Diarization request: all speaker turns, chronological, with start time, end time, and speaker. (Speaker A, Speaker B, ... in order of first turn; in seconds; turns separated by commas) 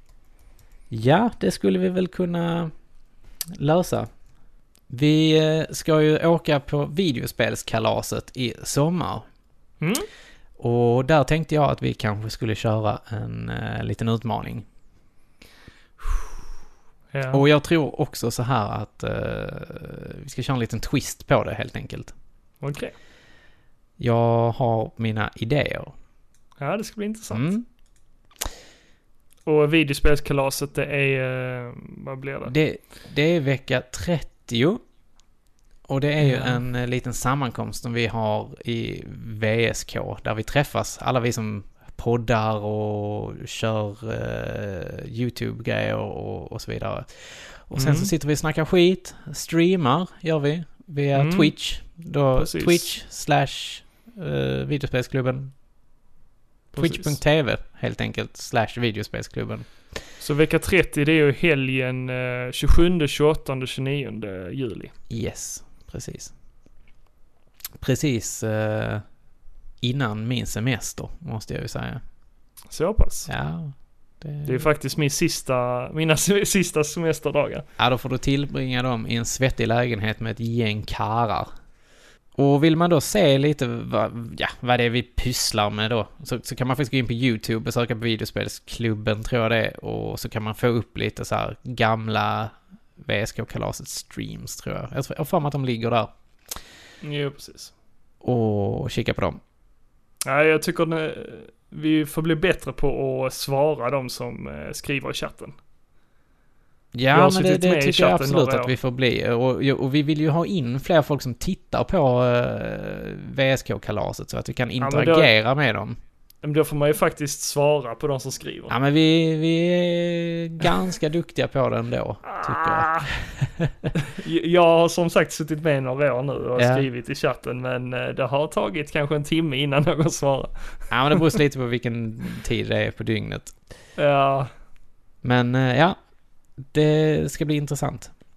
Speaker A: 0.9-2.7, Speaker A: 3.5-4.1, Speaker A: 4.9-9.3, Speaker B: 9.8-10.1, Speaker A: 10.6-14.7, Speaker B: 17.1-17.4, Speaker A: 17.3-22.1, Speaker B: 22.6-23.0, Speaker A: 24.0-25.9, Speaker B: 26.6-27.5, Speaker A: 27.3-27.6, Speaker B: 29.5-32.5, Speaker A: 32.5-34.8, Speaker A: 35.9-55.5, Speaker B: 36.2-36.6, Speaker B: 47.8-48.1, Speaker B: 51.1-51.5, Speaker B: 52.4-52.9, Speaker B: 56.7-57.2, Speaker A: 56.8-59.7, Speaker B: 60.2-64.9, Speaker A: 65.1-66.3, Speaker A: 67.8-69.0, Speaker A: 69.8-72.0, Speaker B: 72.7-73.3, Speaker A: 73.3-74.7, Speaker B: 74.5-77.7, Speaker A: 77.8-81.5, Speaker A: 82.4-96.1, Speaker B: 97.0-97.7, Speaker A: 98.2-99.4, Speaker B: 100.3-105.5, Speaker A: 106.9-116.0, Speaker B: 107.1-108.7, Speaker B: 114.8-115.3, Speaker B: 116.4-118.8, Speaker A: 118.7-123.9, Speaker B: 122.2-123.1, Speaker B: 124.0-131.3, Speaker A: 126.6-126.9, Speaker A: 130.9-133.6, Speaker B: 134.0-134.5, Speaker A: 135.2-136.0, Speaker A: 136.6-138.1